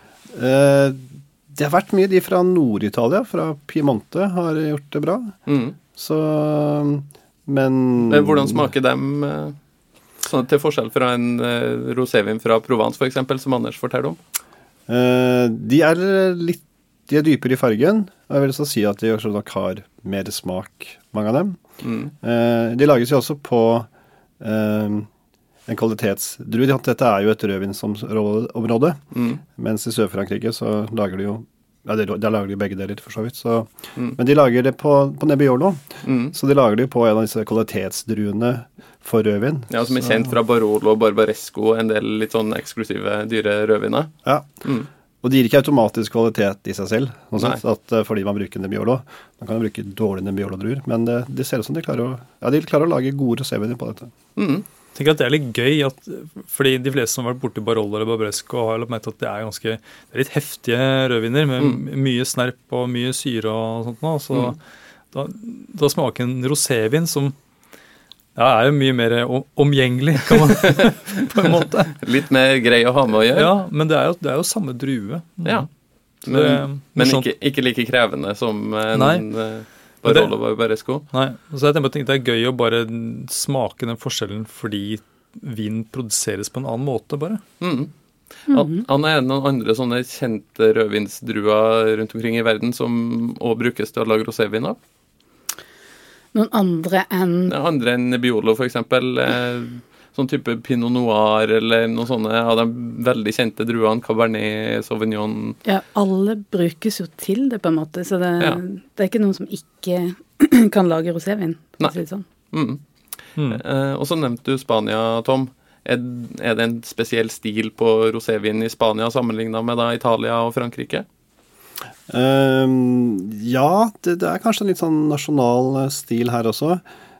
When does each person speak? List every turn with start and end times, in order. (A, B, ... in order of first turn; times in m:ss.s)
0:00.3-0:05.4 A
0:05.5-0:05.8 B
0:05.9-0:08.7 A
0:08.1-0:09.6 B
0:10.2-0:14.2 B
0:14.9-0:21.6 A
0:21.8-0:22.1 B
0:22.2-0:23.9 A
0:24.4-0:25.1 A
0:25.7-0:40.1 A
0:29.1-0:29.4 B
0:36.0-0:36.3 B
0:39.7-0:44.1 B
0:45.2-0:54.1 A
0:54.4-0:54.6 B
0:54.9-1:04.6 C
1:05.1-1:07.3 C
1:08.4-1:12.0 C
1:10.5-1:10.9 B
1:12.0-1:13.5 B
1:13.3-1:15.7 C
1:16.2-1:17.3 C
1:16.2-1:21.1 B
1:18.9-1:19.2 C
1:20.0-1:20.3 C
1:21.1-1:27.4 C
1:27.6-1:27.9 B
1:28.5-1:34.8 B
1:28.5-1:28.8 D
1:36.3-1:37.5 D
1:37.5-1:45.6 B
1:45.6-1:52.2 D
1:52.5-1:52.8 B
1:53.4-1:53.6 C
1:53.5-2:01.0 B
2:02.1-2:06.8 A